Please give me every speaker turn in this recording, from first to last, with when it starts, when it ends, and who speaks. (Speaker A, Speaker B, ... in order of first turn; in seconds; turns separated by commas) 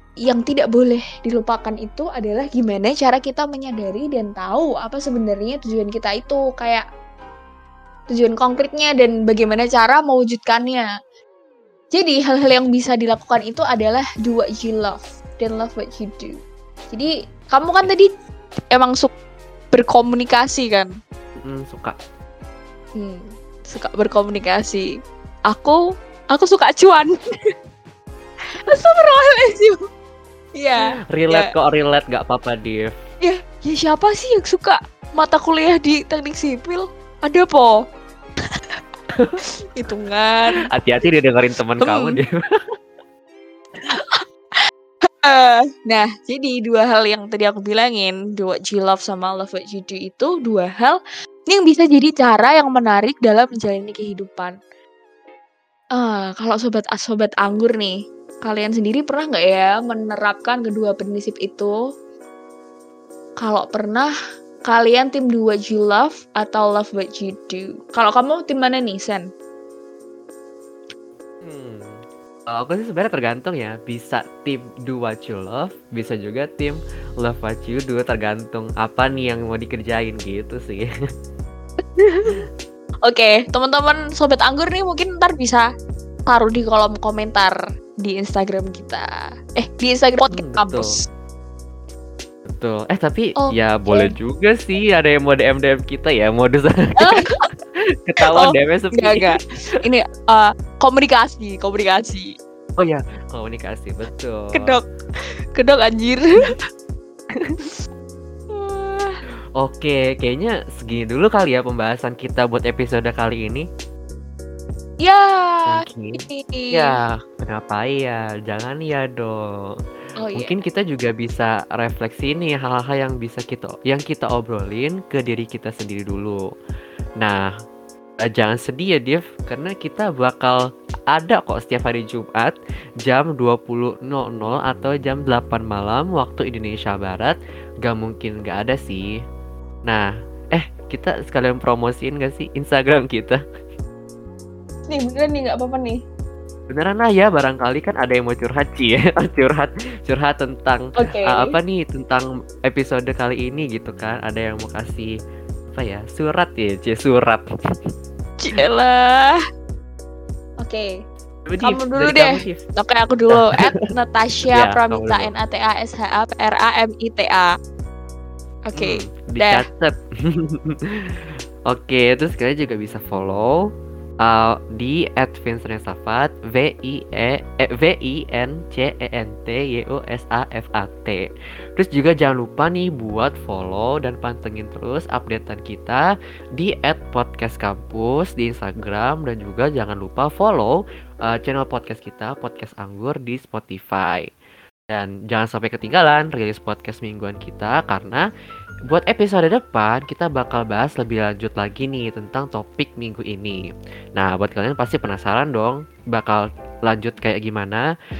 Speaker A: 0.3-6.8, Speaker A: 8.1-10.9, Speaker A: 11.9-16.4, Speaker A: 16.9-18.1, Speaker A: 18.7-19.1, Speaker A: 19.7-20.9, Speaker B: 21.4-22.0, Speaker A: 23.0-24.9, Speaker A: 25.5-25.8, Speaker A: 26.3-27.5, Speaker A: 28.7-29.8, Speaker A: 30.6-31.5, Speaker B: 31.1-32.9, Speaker A: 33.2-37.8, Speaker A: 39.7-40.7, Speaker B: 40.6-42.4, Speaker A: 41.8-42.2, Speaker A: 43.9-44.2, Speaker A: 45.2-54.6, Speaker A: 56.0-61.7, Speaker A: 63.4-64.1, Speaker A: 64.7-69.3, Speaker B: 71.4-80.8, Speaker A: 82.0-82.4, Speaker A: 83.0-85.7, Speaker A: 86.3-91.1, Speaker B: 90.3-90.9, Speaker B: 92.5-97.2, Speaker A: 93.4-94.1, Speaker A: 97.0-97.5, Speaker B: 98.1-99.3, Speaker A: 98.3-102.3, Speaker B: 102.8-104.8, Speaker A: 104.5-104.8, Speaker A: 105.5-106.5, Speaker B: 107.3-107.6, Speaker A: 108.5-109.2, Speaker B: 109.6-113.7, Speaker A: 115.0-116.9, Speaker B: 115.7-119.7, Speaker A: 120.2-120.6, Speaker B: 120.4-126.4, Speaker B: 127.2-127.5, Speaker B: 128.2-130.6, Speaker B: 131.1-139.0, Speaker B: 139.9-143.4, Speaker A: 144.9-146.0, Speaker B: 146.7-155.1, Speaker A: 151.0-151.5, Speaker B: 155.7-157.5, Speaker A: 158.4-159.4, Speaker A: 160.6-160.9, Speaker B: 161.5-162.6, Speaker A: 161.6-167.5, Speaker B: 163.4-163.8, Speaker B: 164.5-165.3, Speaker A: 168.7-169.7, Speaker B: 168.8-173.7, Speaker B: 174.2-186.0, Speaker B: 186.6-194.3, Speaker B: 194.9-198.3, Speaker B: 198.9-203.6, Speaker B: 204.2-207.9